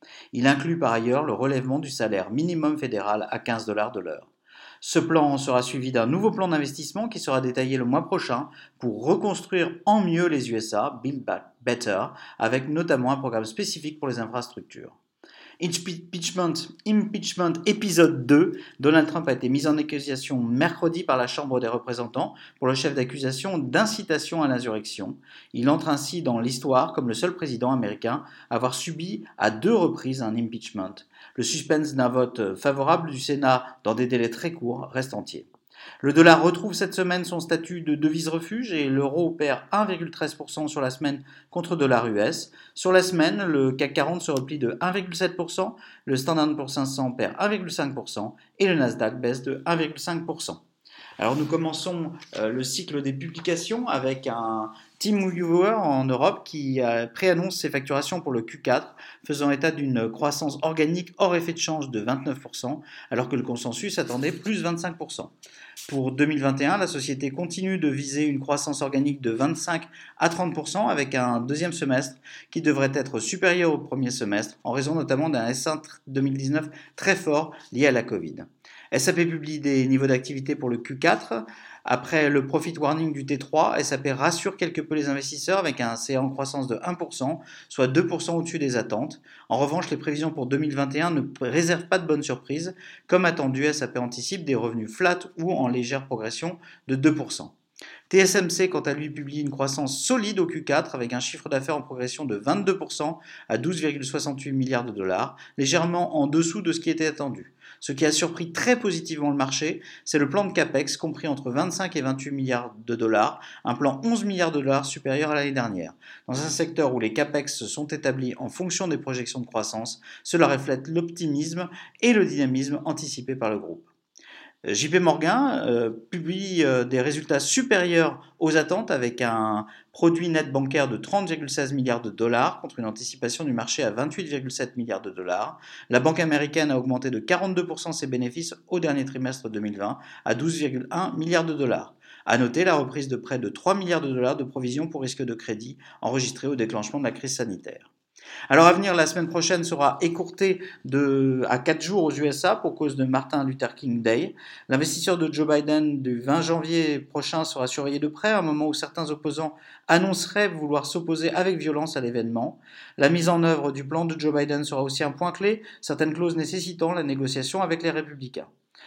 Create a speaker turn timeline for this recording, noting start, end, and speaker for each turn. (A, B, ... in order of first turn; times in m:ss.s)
0:00.3-0:04.3 A
0:04.8-0:15.0 A
0:15.6-0:35.5 A
0:36.0-0:50.6 A
0:51.2-1:05.3 A
1:05.9-1:37.5 A
1:38.1-2:03.9 A
2:04.6-2:27.9 A
2:28.5-2:48.5 A